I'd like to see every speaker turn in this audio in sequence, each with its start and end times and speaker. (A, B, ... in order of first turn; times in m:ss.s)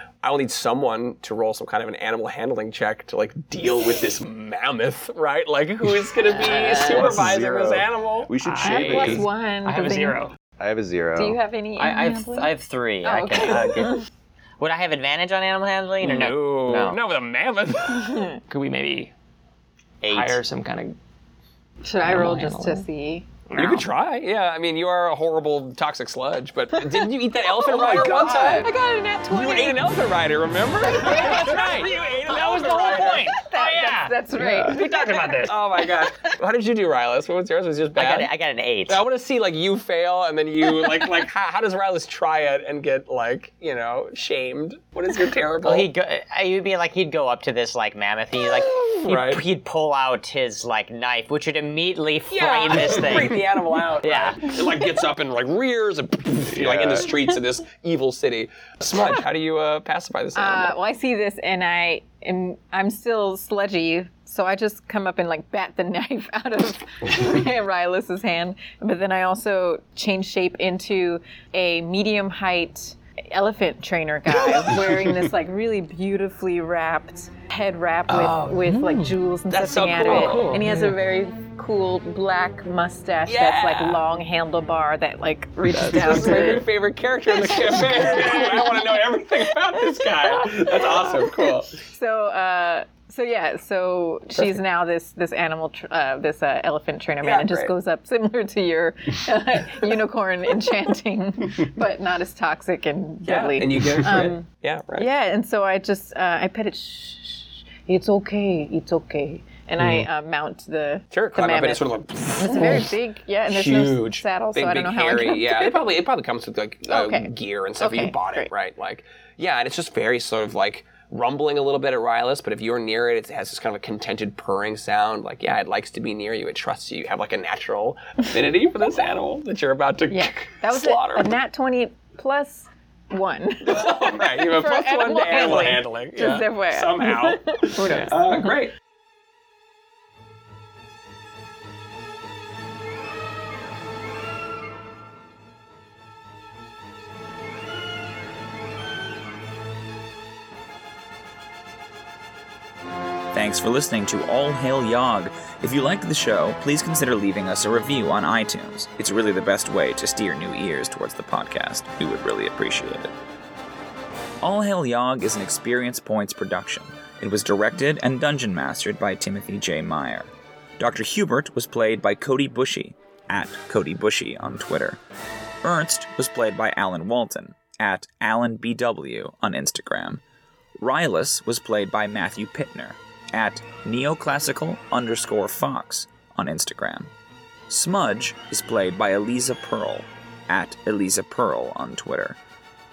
0:00.2-0:08.3 A
0:06.2-0:07.3 B
0:06.6-0:09.3 C
0:08.4-0:10.3 D
0:08.6-0:10.2 B
0:10.6-0:11.4 C
0:11.2-0:12.5 B
0:11.8-0:14.0 E
0:13.0-0:14.0 B
0:14.6-0:17.0 E
0:16.0-0:18.4 A
0:17.9-0:18.4 B
0:18.5-0:19.1 D
0:20.0-0:20.4 E
0:20.0-0:21.0 D
0:21.8-0:23.3 B
0:22.0-0:22.8 D
0:23.5-0:23.9 D
0:23.6-0:28.7 A
0:27.7-0:28.7 C
0:28.0-0:29.8 B
0:29.3-0:33.4 A
0:30.8-0:32.0 B
0:31.0-0:35.5 D
0:32.6-0:35.9 B
0:34.7-0:38.3 A
0:37.9-0:39.0 E
0:38.9-0:45.9 A
0:45.6-0:53.4 E
0:48.4-0:49.4 A
0:52.3-1:00.8 A
0:54.0-0:54.5 E
0:56.5-0:57.1 C
1:00.3-1:26.7 B
1:14.3-1:14.8 A
1:18.1-1:20.6 A
1:18.6-1:19.0 D
1:20.0-1:20.9 D
1:23.2-1:24.0 A
1:25.7-1:31.7 A
1:27.3-1:44.4 B
1:37.2-1:37.7 A
1:43.2-1:45.1 A
1:45.0-1:55.8 B
1:51.1-1:52.9 A
1:53.5-2:11.3 A
1:56.9-1:58.5 B
2:10.1-2:18.6 B
2:13.6-2:18.7 A
2:33.3-2:43.1 F
2:44.4-2:55.0 F
2:55.6-3:00.2 F
3:00.8-3:07.1 F
3:07.7-3:12.4 F